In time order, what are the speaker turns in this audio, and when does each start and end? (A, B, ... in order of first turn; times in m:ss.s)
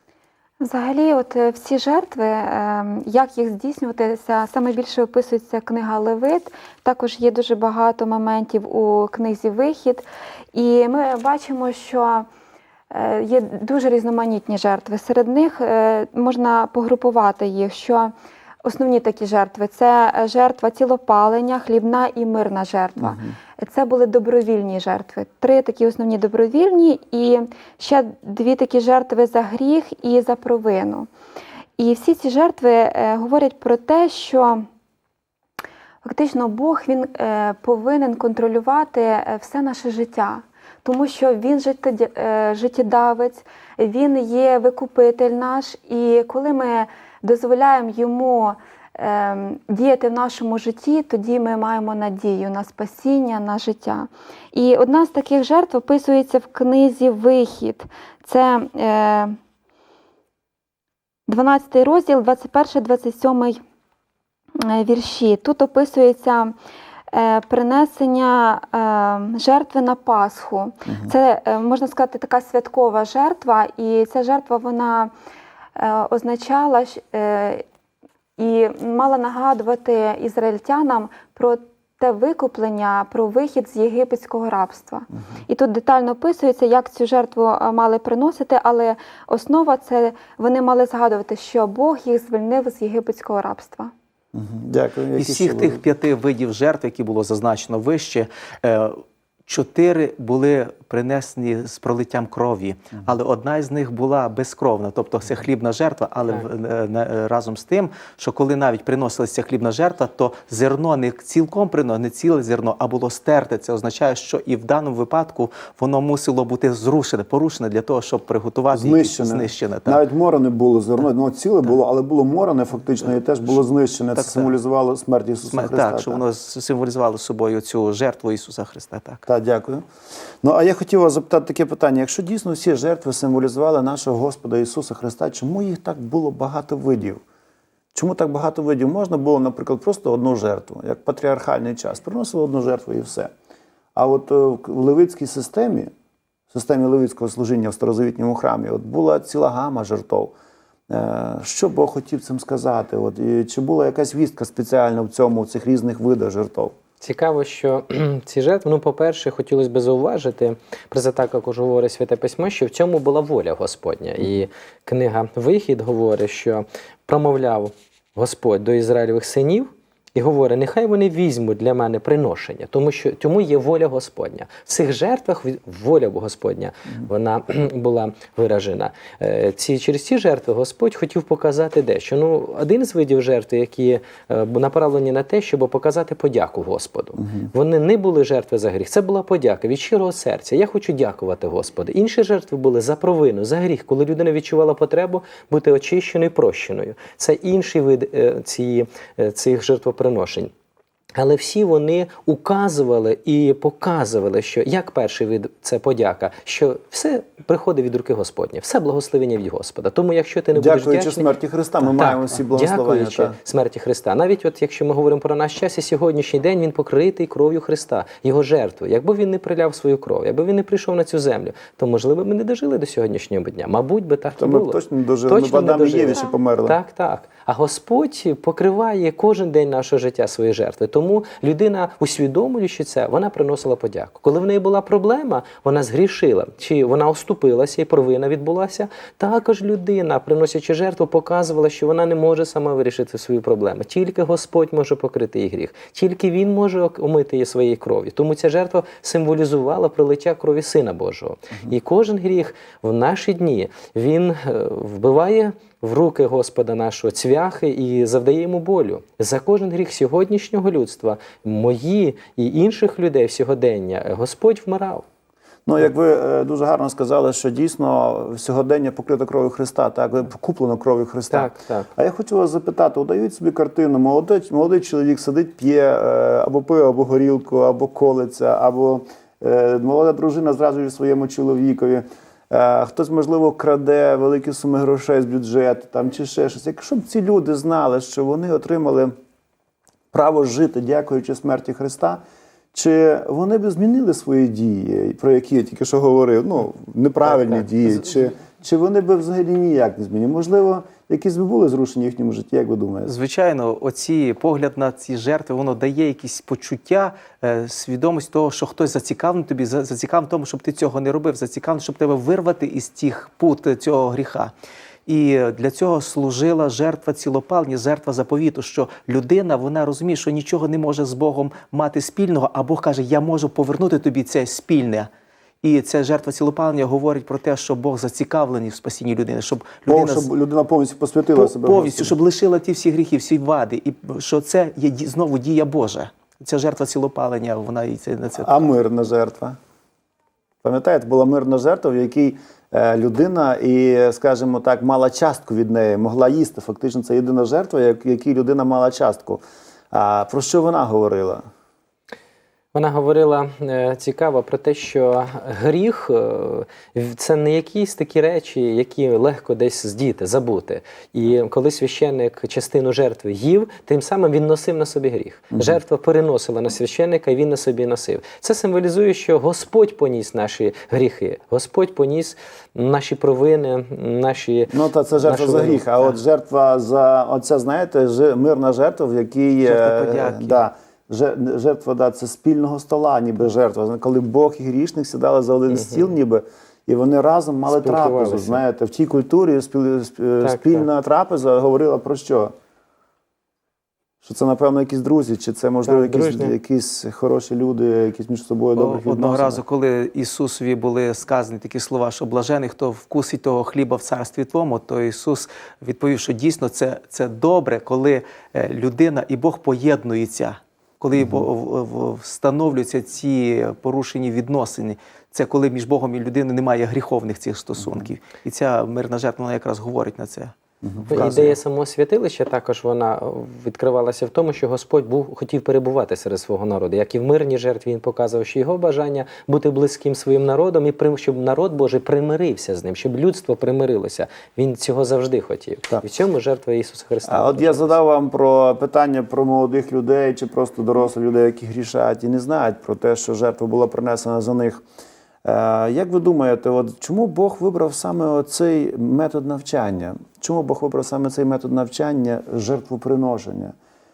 0:00.6-0:12.3 A
0:12.9-0:18.1 A
0:18.6-0:31.1 A
0:23.0-0:23.4 B
0:31.8-0:34.7 A
0:36.0-0:59.4 A
1:01.3-1:03.6 A
1:04.6-1:06.6 A
1:07.1-1:15.1 A
1:10.9-1:11.1 B
1:15.8-1:17.6 A
1:18.4-1:33.9 A
1:34.3-1:35.8 B
1:35.2-2:00.0 C
1:58.7-2:06.2 B
2:04.2-2:04.5 C
2:05.5-2:09.2 C
2:09.3-2:09.8 B
2:10.4-2:17.2 B
2:17.9-2:23.3 B
2:24.0-2:25.9 B
2:26.5-2:30.3 B
2:30.9-2:36.7 B
2:37.0-3:20.5 D
3:21.2-3:31.3 D
3:30.6-3:33.4 B
3:31.9-4:25.0 D
3:44.4-3:46.8 B
4:25.7-4:49.1 B
4:31.3-4:31.9 D
4:50.1-4:52.2 B
4:52.7-5:03.1 B
4:57.4-4:57.7 C
5:03.1-5:14.5 C
5:15.1-5:25.1 C
5:25.6-5:30.3 C
5:29.9-5:32.2 B
5:31.4-5:38.6 C
5:38.4-5:39.6 B
5:40.6-5:51.4 B
5:52.7-6:15.9 D
6:05.5-6:05.8 B
6:14.7-6:32.5 B
6:19.6-6:20.6 C
6:25.7-6:26.1 D
6:27.7-6:28.6 D
6:30.4-6:30.8 D
6:34.2-6:39.6 B
6:35.9-6:36.5 D
6:38.8-7:00.5 C
6:51.2-6:51.5 B
6:57.8-6:58.1 B
7:00.8-7:01.6 B
7:01.1-7:01.5 C
7:01.1-7:18.0 D
7:17.3-7:24.8 B
7:25.4-7:33.7 B